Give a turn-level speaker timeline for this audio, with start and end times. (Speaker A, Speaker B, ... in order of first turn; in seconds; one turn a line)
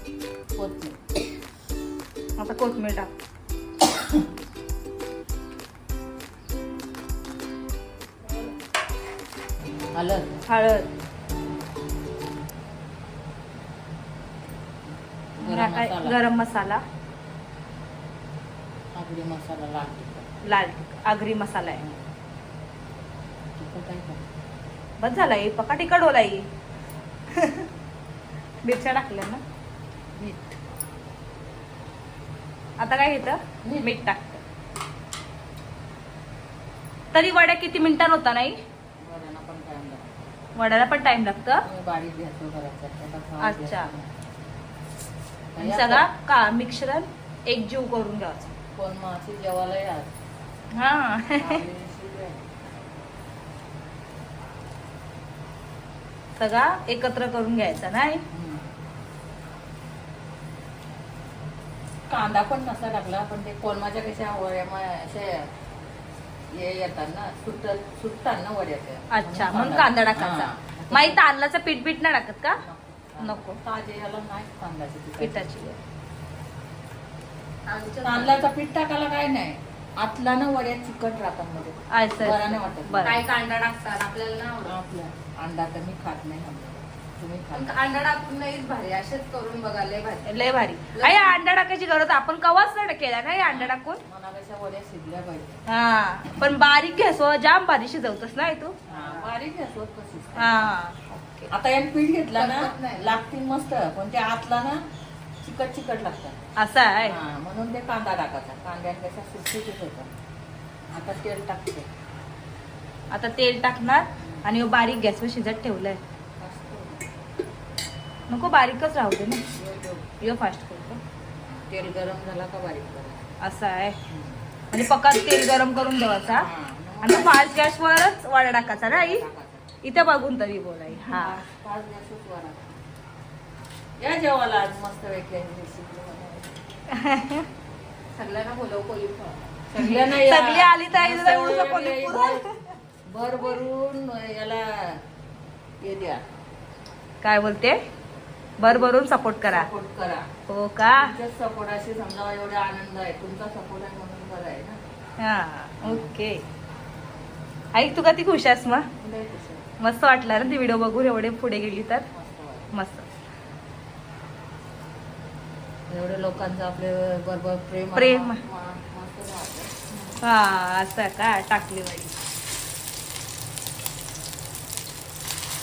Speaker A: 0.6-1.0
Speaker B: 2.4-3.1
Speaker A: 9.9-10.4
Speaker B: 10.5-10.9
Speaker A: 15.4-16.2
Speaker B: 15.4-16.8
Speaker A: 18.9-20.3
Speaker B: 20.4-21.8
Speaker A: 21.7-22.1
Speaker A: 23.6-24.2
Speaker B: 25.0-26.5
Speaker B: 27.3-27.7
Speaker B: 28.6-29.4
Speaker A: 30.2-30.6
Speaker B: 32.8-34.4
Speaker A: 33.6-34.0
Speaker B: 37.1-38.6
Speaker A: 39.0-40.2
Speaker B: 40.6-41.6
Speaker A: 41.6-44.1
Speaker B: 43.4-43.9
Speaker A: 45.5-46.1
Speaker B: 45.6-48.5
Speaker A: 48.8-50.1
Speaker B: 50.8-51.6
Speaker A: 51.4-52.5
Speaker B: 56.4-58.2
Speaker A: 58.3-58.7
Speaker A: 62.1-65.5
Speaker A: 66.5-71.2
Speaker B: 69.1-72.6
Speaker A: 72.6-75.5
Speaker B: 73.2-73.6
Speaker B: 75.2-75.8
Speaker C: 77.7-78.5
Speaker A: 78.0-83.2
Speaker B: 81.9-83.2
Speaker C: 83.0-84.7
Speaker A: 84.6-87.8
Speaker C: 87.5-90.3
Speaker B: 90.2-94.0
Speaker C: 90.9-91.4
Speaker A: 93.4-95.6
Speaker B: 95.7-98.9
Speaker A: 98.9-100.8
Speaker B: 100.4-101.5
Speaker A: 101.5-104.8
Speaker C: 102.3-103.2
Speaker A: 105.4-106.4
Speaker B: 106.6-107.2
Speaker A: 107.0-110.1
Speaker A: 110.9-111.9
Speaker B: 113.1-116.0
Speaker A: 114.2-114.5
Speaker A: 116.4-117.1
Speaker B: 118.3-119.4
Speaker A: 119.5-120.2
Speaker B: 120.2-121.0
Speaker A: 121.7-123.3
Speaker B: 123.4-124.0
Speaker A: 124.1-124.4
Speaker B: 124.7-126.5
Speaker A: 126.3-127.5
Speaker B: 127.0-129.2
Speaker A: 128.7-129.8
Speaker B: 129.8-131.4
Speaker A: 130.9-132.8
Speaker A: 134.0-136.5
Speaker B: 136.9-137.4
Speaker C: 138.1-140.1
Speaker A: 139.7-142.4
Speaker B: 140.1-142.6
Speaker A: 143.1-145.0
Speaker A: 145.8-146.2
Speaker B: 147.2-147.8
Speaker B: 148.6-149.7
Speaker A: 148.6-150.3
Speaker B: 150.5-151.1
Speaker A: 150.9-154.8
Speaker B: 155.2-156.4
Speaker A: 155.8-156.1
Speaker B: 157.7-158.9
Speaker A: 159.0-159.7
Speaker B: 159.8-162.1
Speaker A: 162.1-162.8
Speaker B: 162.7-163.1
Speaker A: 165.9-170.2
Speaker B: 167.9-168.4
Speaker B: 170.2-172.1